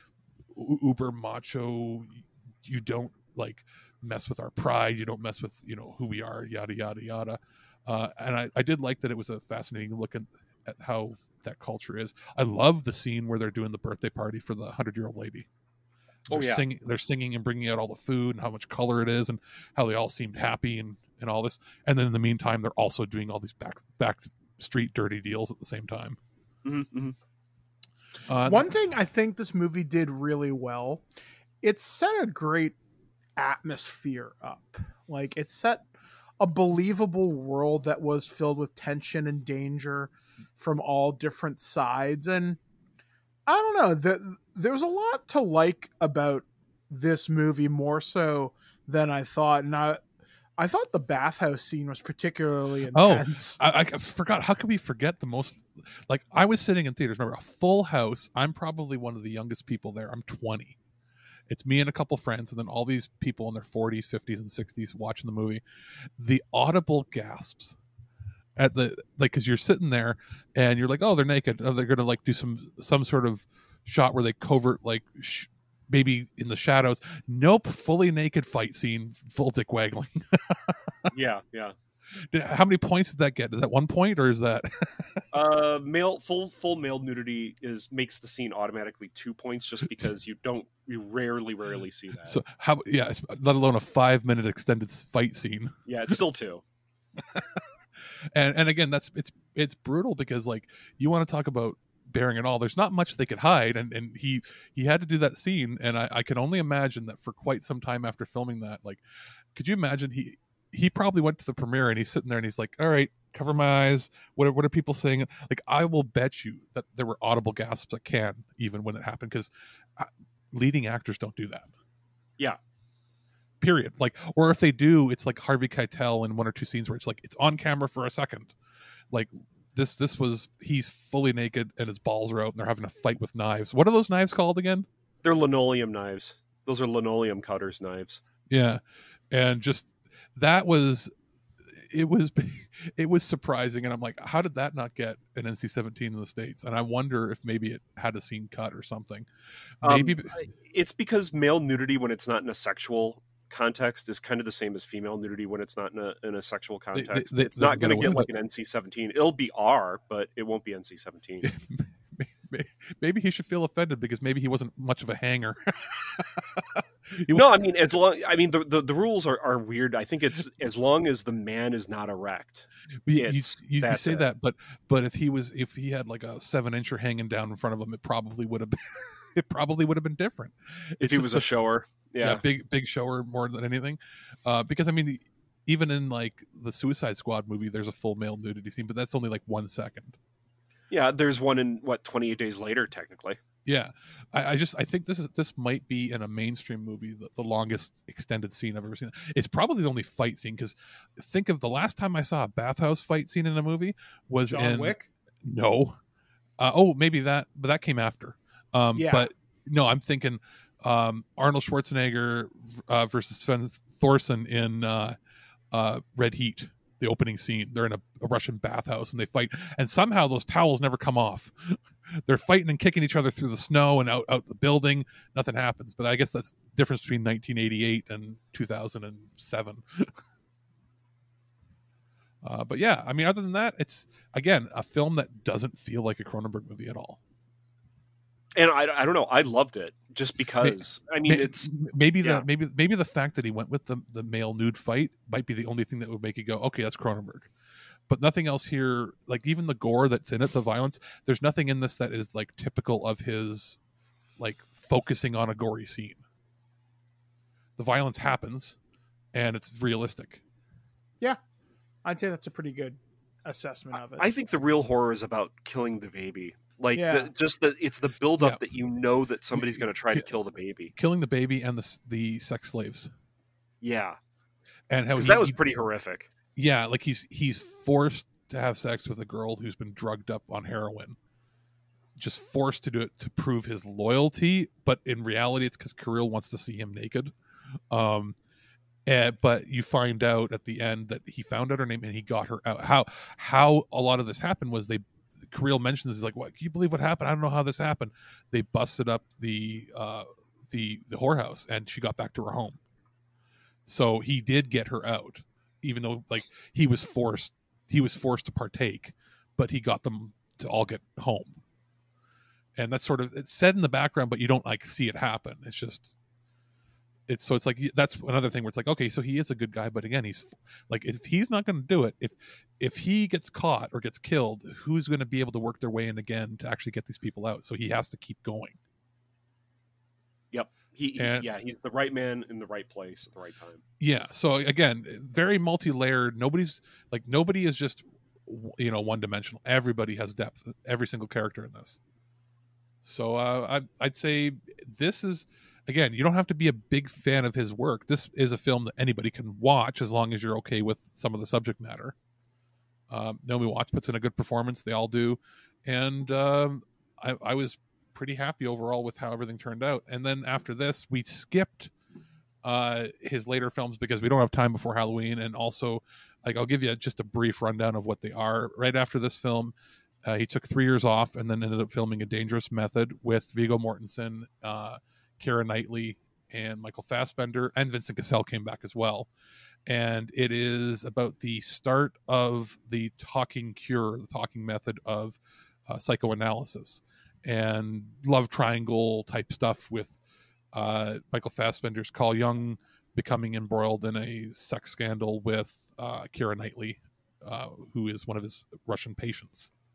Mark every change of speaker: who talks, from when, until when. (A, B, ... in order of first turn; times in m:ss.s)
0:00.5-0:15.5 A
0:16.3-0:26.2 A
0:16.3-0:16.6 B
0:26.6-0:27.1 B
0:28.3-0:28.7 A
0:28.4-0:31.0 C
0:31.6-0:32.8 C
0:33.4-0:35.9 C
0:36.4-0:42.6 C
0:43.5-0:50.0 C
0:50.6-0:53.6 C
0:52.9-1:00.8 A
1:01.5-1:05.6 A
1:06.2-1:07.8 A
1:08.6-1:20.7 A
1:21.1-1:21.7 B
1:22.3-1:25.0 A
1:25.3-1:32.4 B
1:32.2-1:35.7 A
1:35.8-1:36.6 B
1:38.4-1:49.0 A
1:49.6-2:01.7 A
2:03.6-2:08.6 A
2:09.1-2:14.9 A
2:15.2-2:18.2 B
2:18.5-2:21.1 A
2:21.8-2:29.3 A
2:29.8-2:30.3 A
2:29.8-2:41.4 B
2:37.0-2:38.3 A
2:41.4-2:47.4 A
2:47.3-2:54.3 B
2:53.1-2:58.8 A
2:59.3-3:01.5 A
3:01.0-3:02.4 B
3:02.2-3:10.2 A
3:10.9-3:13.4 B
3:13.6-3:26.0 A
3:24.4-3:25.1 C
3:26.6-3:35.2 A
3:29.0-3:29.3 C
3:35.7-3:50.1 A
3:52.4-3:57.2 A
3:58.6-4:01.7 B
4:00.6-4:07.5 A
4:08.1-4:13.8 A
4:14.4-4:16.2 A
4:17.8-4:18.8 A
4:19.3-4:20.4 A
4:22.0-4:24.3 C
4:24.2-4:30.9 B
4:27.0-4:27.3 C
4:29.6-4:30.3 A
4:30.9-4:33.1 A
4:33.8-4:34.2 B
4:34.9-4:35.6 A
4:35.1-4:36.3 B
4:36.6-4:41.2 A
4:42.2-4:47.3 A
4:47.9-4:48.4 A
4:49.1-5:02.8 A
5:03.8-5:11.6 A
5:12.8-5:16.1 A
5:17.3-5:28.8 A
5:30.5-5:33.8 B
5:31.2-5:31.5 A
5:34.0-5:42.0 A
5:43.0-5:52.1 A
5:53.1-6:01.9 A
6:02.6-6:19.3 A
6:19.9-6:30.2 A
6:30.7-6:39.7 A